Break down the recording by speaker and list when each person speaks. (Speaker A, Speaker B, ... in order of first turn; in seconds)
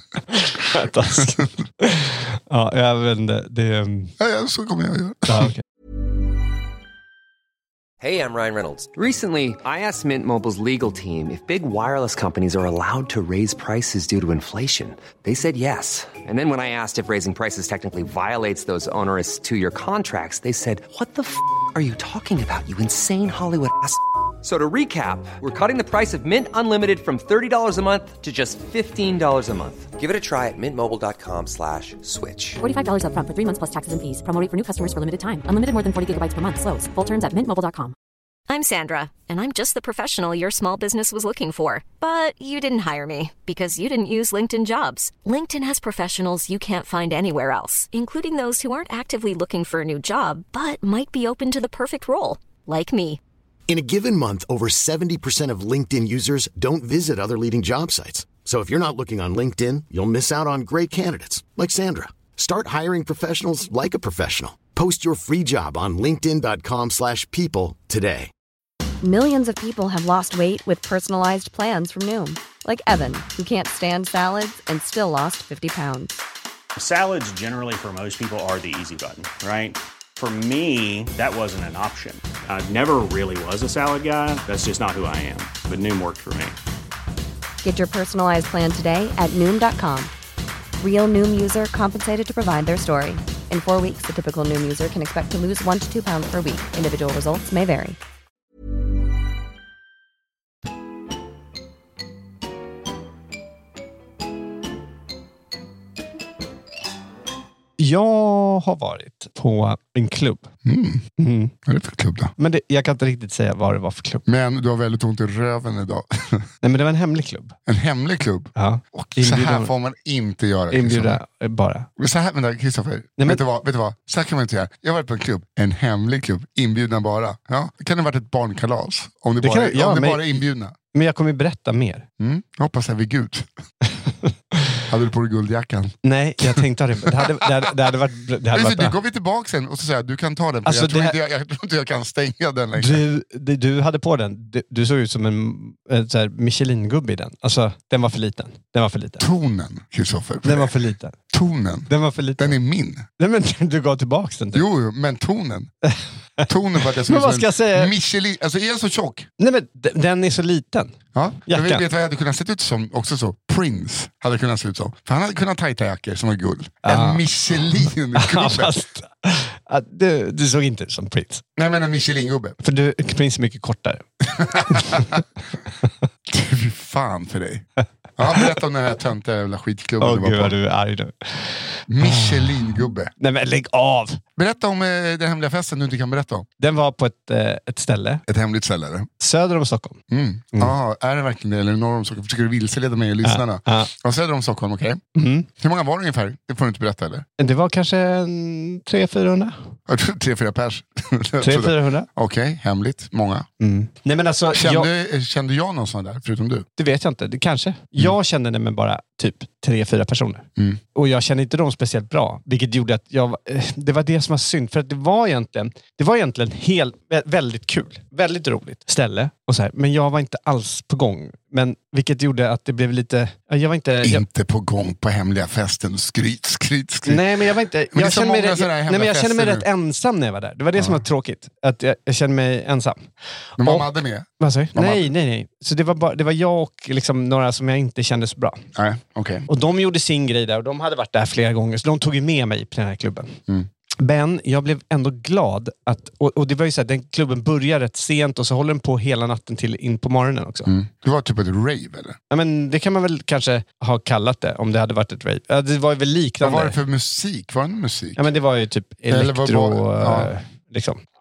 Speaker A: 0.3-4.1, 5.3-5.6, 107.8-110.5, 111.2-111.5, 112.4-114.2, 116.6-117.5, 118.6-119.7, 120.7-121.9, 129.4-130.4, 130.9-132.1, 133.9-134.8, 136.0-139.0, 140.7-141.2, 142.8-149.3, 150.4-151.2, 151.9-152.6, 153.2-154.6, 155.8-157.9, 159.4-160.9, 161.5-161.8, 166.8-171.4, 172.6-175.2, 180.0-184.2, 186.6-188.2, 189.2-190.0, 193.2-193.9, 195.2-195.5, 197.4-199.6, 201.4-202.1, 203.6-204.9, 206.8-224.2, 227.1-233.0, 233.6-233.9, 234.4-238.7, 239.5-243.4, 244.0-250.7, 252.3-256.8, 258.2-261.0
Speaker B: 4.2-5.5, 110.7-111.0, 111.7-112.3, 114.3-116.5, 117.7-121.2, 122.0-130.8, 132.2-133.5, 134.9-137.6, 138.5-143.0, 149.2-150.7, 151.3-153.1, 154.5-155.7, 156.4-159.3, 161.2-168.8, 171.6-172.6, 174.3-175.2, 176.3-177.7, 178.2-180.6, 181.9-183.1, 184.4-186.5, 188.3-189.1, 190.1-195.0, 195.6-197.3, 199.9-203.5, 204.5-206.7, 224.0-229.7, 230.8-231.0, 233.6-235.1, 238.8-239.5, 250.7-252.2, 256.4-258.2, 259.1-260.3
Speaker C: 8.0-32.6
Speaker D: 32.6-37.9
Speaker E: 38.5-53.2
Speaker F: 53.7-68.3
Speaker G: 69.0-76.2, 87.6-90.1, 90.8-98.0
Speaker H: 76.8-86.6